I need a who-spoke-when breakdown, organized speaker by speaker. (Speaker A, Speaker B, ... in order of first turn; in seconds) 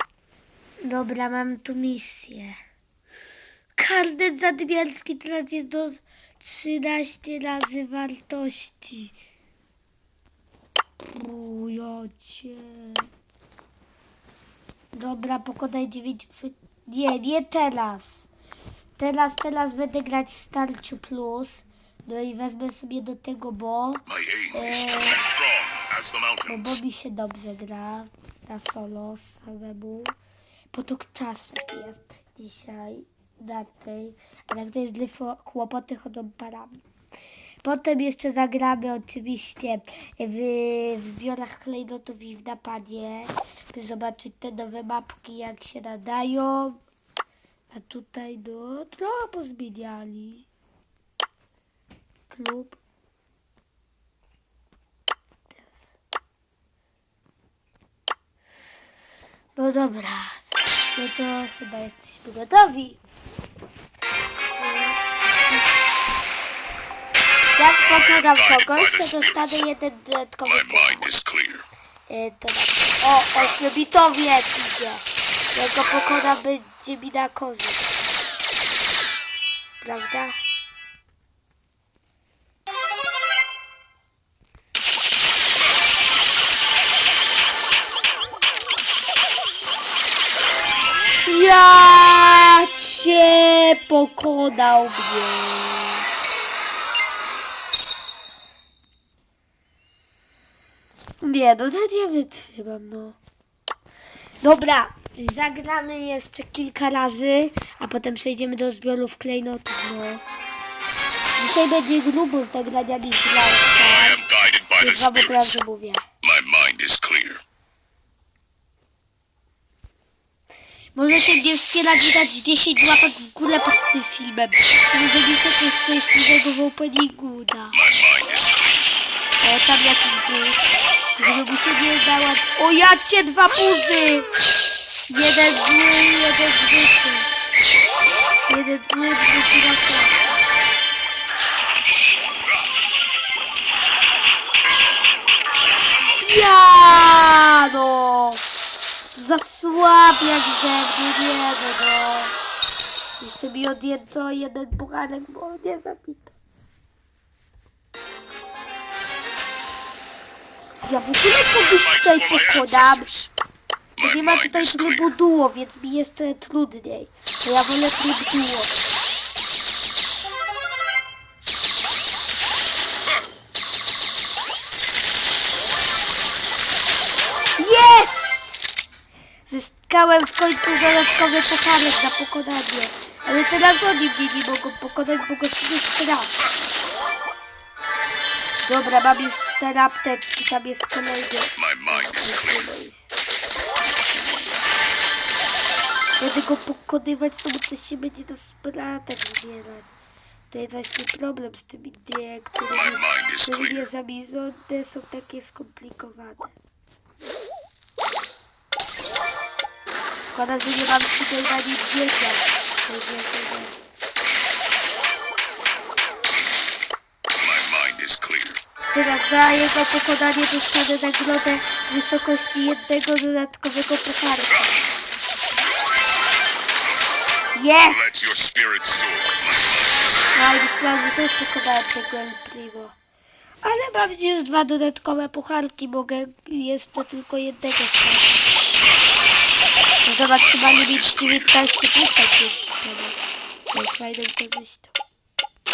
Speaker A: 0.8-2.6, 3.8-9.1, 11.1-13.1, 14.9-18.2, 19.0-25.3, 26.4-30.1, 30.7-36.8, 37.6-46.8, 47.7-50.5, 52.3-52.8, 55.5-55.9, 59.5-63.0, 64.5-65.7, 67.5-71.1, 72.1-77.9, 79.8-80.4, 91.1-96.1, 101.2-103.2, 104.4-110.2, 111.4-116.0, 120.9-127.9, 129.4-134.3, 135.1-137.3, 138.5-140.2, 146.1-148.4, 149.1-152.3, 153.2-156.3, 160.8-163.1, 164.0-168.7, 177.6-178.5, 179.5-186.3, 188.6-193.1, 193.8-194.6, 196.2-199.9, 200.5-206.5, 210.2-213.8, 218.9-224.9, 227.5-228.1, 230.3-232.9, 233.6-238.4, 240.0-243.2, 243.7-244.9
Speaker B: 24.1-26.6, 68.1-68.8, 70.7-71.6, 113.9-115.5, 116.2-117.4, 127.8-128.7, 161.8-163.3, 164.0-165.1, 202.9-203.8, 217.4-218.6, 228.0-229.7